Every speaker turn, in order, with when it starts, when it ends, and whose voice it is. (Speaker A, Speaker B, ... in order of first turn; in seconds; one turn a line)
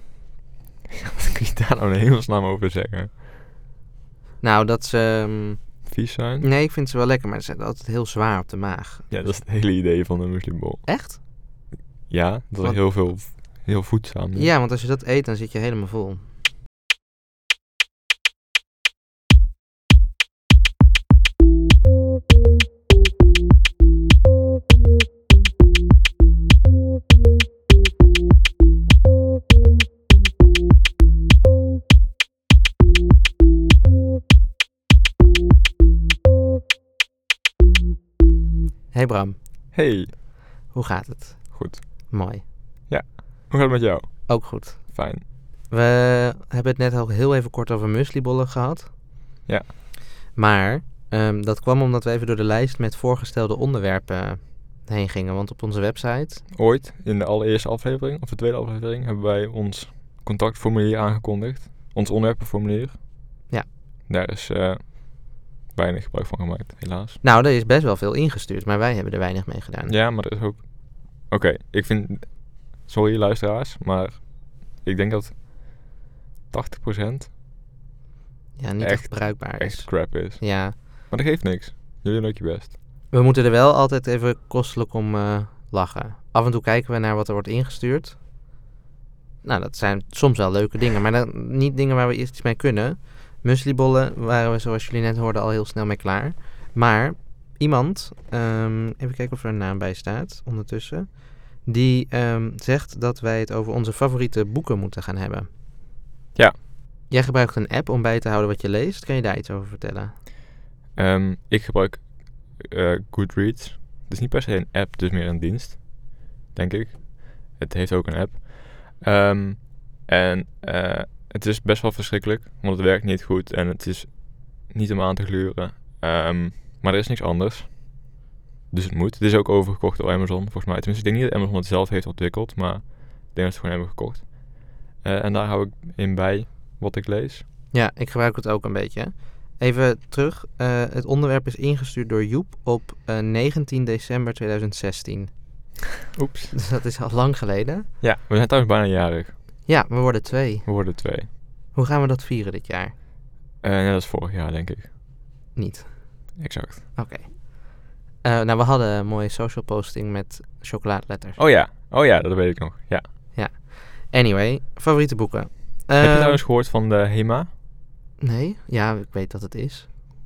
Speaker A: 1.0-3.1
Speaker B: 4.4-9.3
Speaker A: 5.9-6.5
Speaker A: 9.1-10.9
Speaker B: 10.9-11.2
Speaker A: 12.1-14.5
Speaker B: 14.3-16.2
Speaker B: 38.9-39.4
Speaker A: 39.7-40.1
Speaker B: 40.7-42.4
Speaker A: 41.5-41.9
Speaker A: 42.9-45.2
Speaker B: 44.3-49.0
Speaker B: 50.3-56.5
Speaker A: 56.5-63.0
Speaker A: 64.1-67.2
Speaker B: 67.2-69.9
Speaker A: 69.9-75.9
Speaker A: 76.5-77.3
Speaker B: 78.6-80.8
Speaker A: 78.8-82.8
Speaker B: 83.1-88.2
Speaker B: 89.4-105.5
Speaker B: 107.1-110.1
Speaker A: 111.0-128.1
Speaker A: 128.7-137.4
Speaker B: 137.7-145.7
Speaker A: 146.2-146.6
Speaker B: 146.6-147.9
Speaker A: 148.0-149.4
Speaker B: 149.7-150.7
Speaker A: 150.7-151.3
Speaker B: 151.3-152.9
Speaker A: 153.6-154.9
Speaker B: 155.6-156.4
Speaker A: 156.4-156.9
Speaker B: 157.0-161.4
Speaker A: 161.4-163.1
Speaker B: 163.3-166.4
Speaker A: 166.0-167.5
Speaker B: 168.2-169.9